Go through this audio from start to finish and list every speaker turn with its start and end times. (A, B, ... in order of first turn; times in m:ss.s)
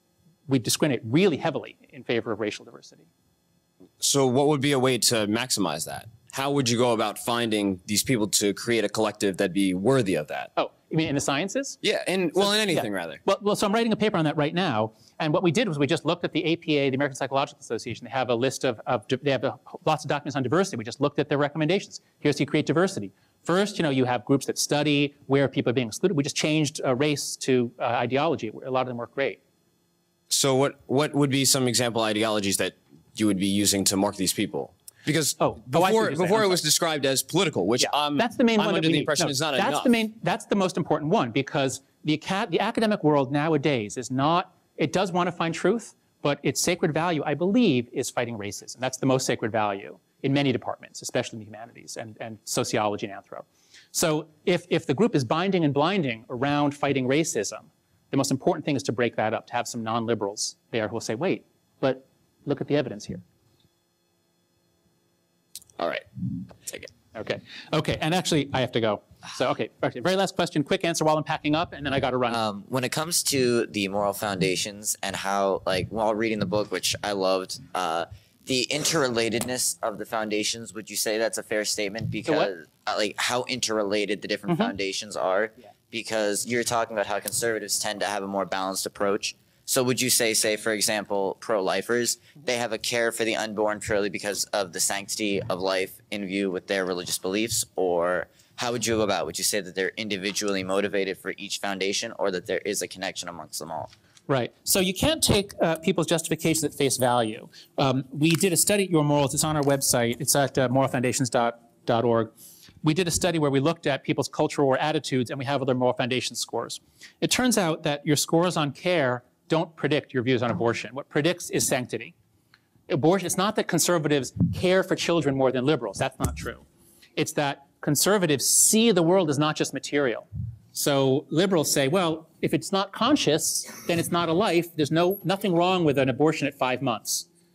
0:00.5-0:03.1 A
0:04.0-0:10.5 B
0:10.6-0:11.8 A
0:11.8-0:13.2 B
0:12.5-0:29.4 A
0:30.3-0:40.0 B
0:35.4-0:36.6 A
0:37.8-1:03.2 A
1:05.8-1:06.0 B
1:07.1-1:12.4 A
1:12.3-1:43.9 C
1:22.2-1:22.5 A
1:44.3-2:02.1 A
2:02.9-2:06.6 A
2:07.2-2:17.3 A